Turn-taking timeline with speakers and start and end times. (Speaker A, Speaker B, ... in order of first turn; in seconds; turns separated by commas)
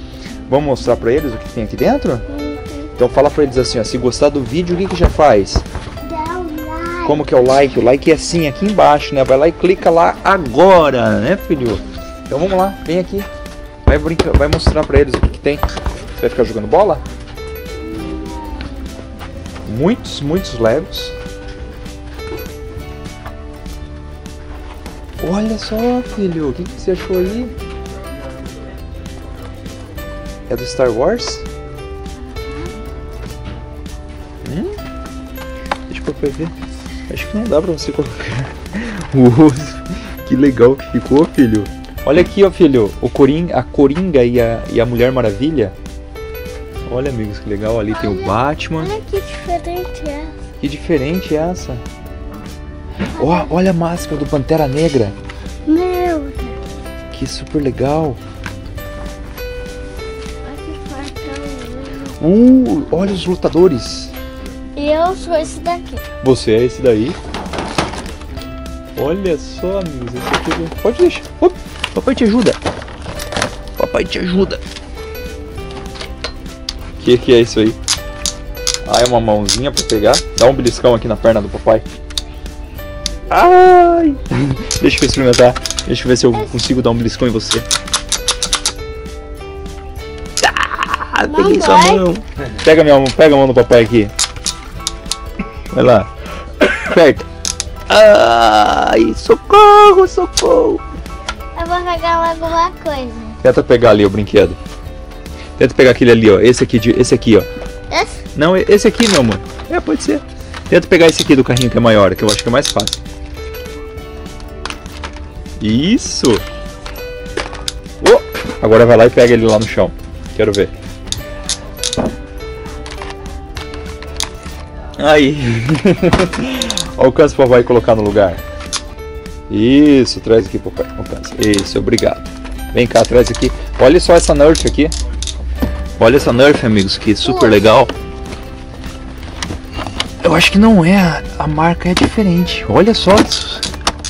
Speaker A: 0.5-2.2, Speaker B: 2.3-2.9, Speaker A: 3.0-5.6, Speaker B: 6.0-7.2, Speaker A: 7.0-13.3, Speaker A: 13.8-15.6, Speaker A: 16.2-17.0, Speaker B: 17.8-18.8, Speaker A: 19.7-21.1, Speaker A: 25.2-27.5, Speaker A: 30.5-31.4, Speaker A: 34.5-34.8, Speaker A: 35.9-36.5, Speaker A: 37.1-45.8, Speaker A: 46.9-48.9, Speaker B: 47.9-50.3, Speaker A: 50.6-51.8, Speaker B: 53.2-53.5, Speaker A: 53.2-55.2, Speaker B: 55.7-56.6, Speaker A: 57.1-58.2, Speaker B: 60.5-62.2, Speaker A: 62.2-64.1, Speaker B: 64.8-66.0, Speaker A: 66.2-67.2, Speaker A: 69.0-72.6, Speaker A: 73.8-74.6, Speaker A: 77.0-77.8, Speaker A: 78.8-81.8, Speaker A: 83.3-87.7, Speaker A: 90.4-94.1, Speaker B: 91.3-92.0, Speaker A: 95.7-96.1, Speaker A: 96.6-97.3, Speaker A: 97.9-100.8, Speaker B: 101.6-103.4, Speaker A: 103.4-104.6, Speaker A: 105.6-107.5, Speaker B: 107.9-108.2, Speaker A: 108.3-113.0, Speaker A: 115.6-116.4, Speaker A: 118.0-120.7, Speaker A: 125.0-128.4, Speaker A: 129.5-134.9, Speaker A: 136.0-137.9, Speaker B: 137.2-137.9, Speaker A: 140.2-143.7